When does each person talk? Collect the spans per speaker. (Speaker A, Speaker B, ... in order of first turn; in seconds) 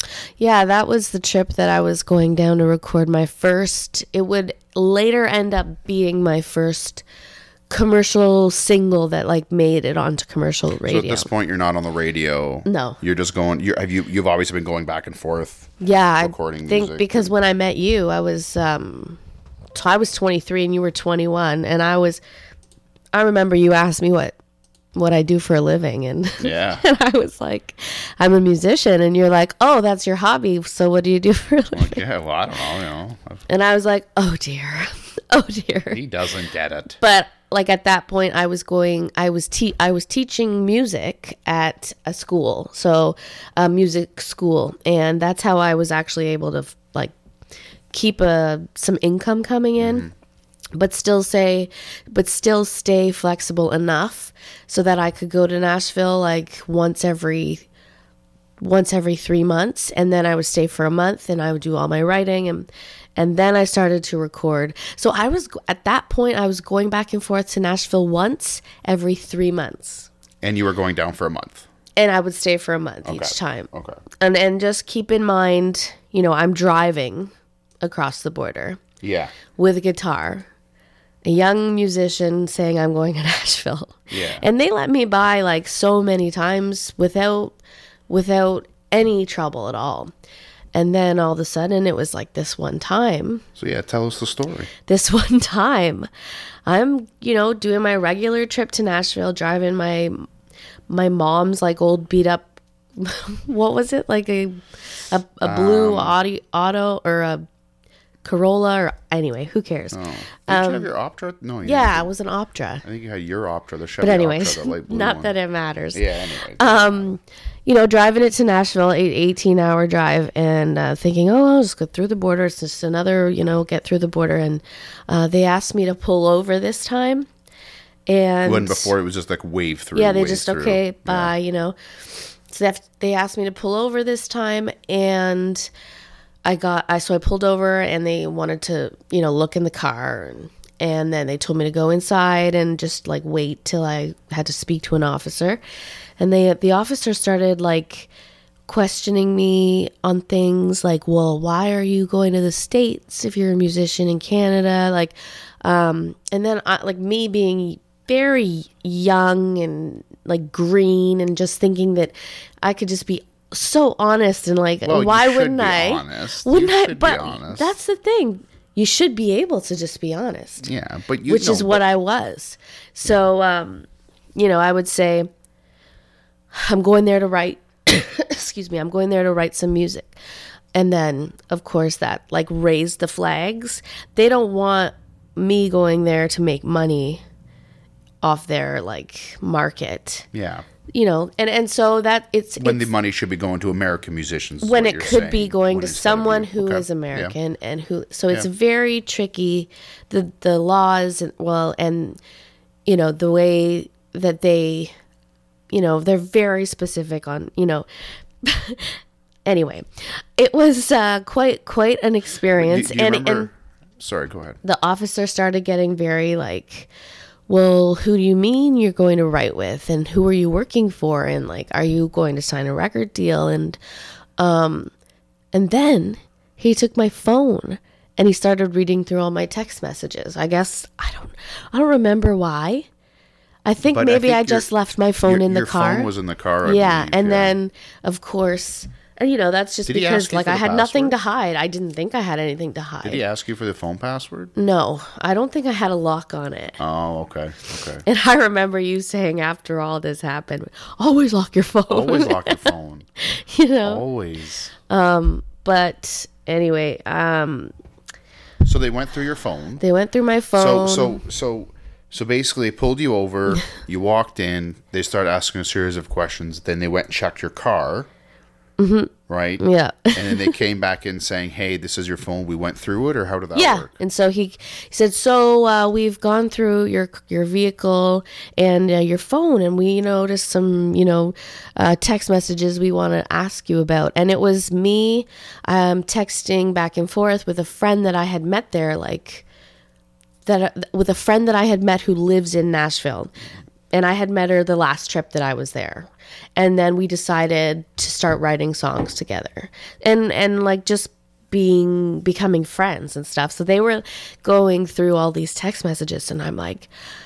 Speaker A: 0.4-7.0, 7.7-11.3, 12.7-13.0, 15.8-19.2, 19.8-22.2, 23.1-24.4, 24.9-32.0, 33.5-36.0, 37.0-47.1, 47.9-50.1, 50.8-57.7, 58.6-70.1, 72.0-77.3, 77.8-78.8, 79.5-80.5, 81.2-87.5, 88.1-90.1, 90.7-93.4, 94.9-96.1, 96.7-100.3, 100.9-107.5, 108.2-110.9, 111.6-112.8, 114.0-127.3, 128.1-128.9, 129.9-131.8, 132.5-135.7, 136.4-145.6, 146.2-148.1, 148.7-170.7, 171.3-175.3, 176.5-180.2, 180.7-187.2, 188.2-190.3, 190.9-192.9, 194.6-202.2, 202.9-204.9, 205.7-207.9, 208.4-209.8, 210.4-213.5, 214.6-216.9, 217.5-223.8, 224.4-224.9, 225.5-232.9, 233.7-236.1, 236.6-243.2, 244.6-246.8, 248.1-254.0, 254.9-257.7, 259.8-261.2, 268.8-270.5, 273.6-289.5, 290.5-293.3, 293.9-306.9
Speaker B: 10.8-17.3, 26.4-26.8, 31.7-33.5, 35.9-37.0, 49.8-50.1, 70.4-71.7, 73.0-74.0, 79.0-79.3, 84.1-84.5, 93.6-94.7, 105.4-106.2, 109.9-112.1, 112.8-115.3, 115.9-117.1, 128.4-131.3, 164.8-167.7, 170.6-171.8, 190.3-190.7, 192.6-197.3, 212.6-214.6, 233.9-234.7, 235.2-237.6, 239.9-241.2, 243.0-244.5, 246.8-248.1, 251.9-253.1, 253.8-254.7, 258.6-259.8, 260.6-268.1, 269.3-269.6, 270.1-273.9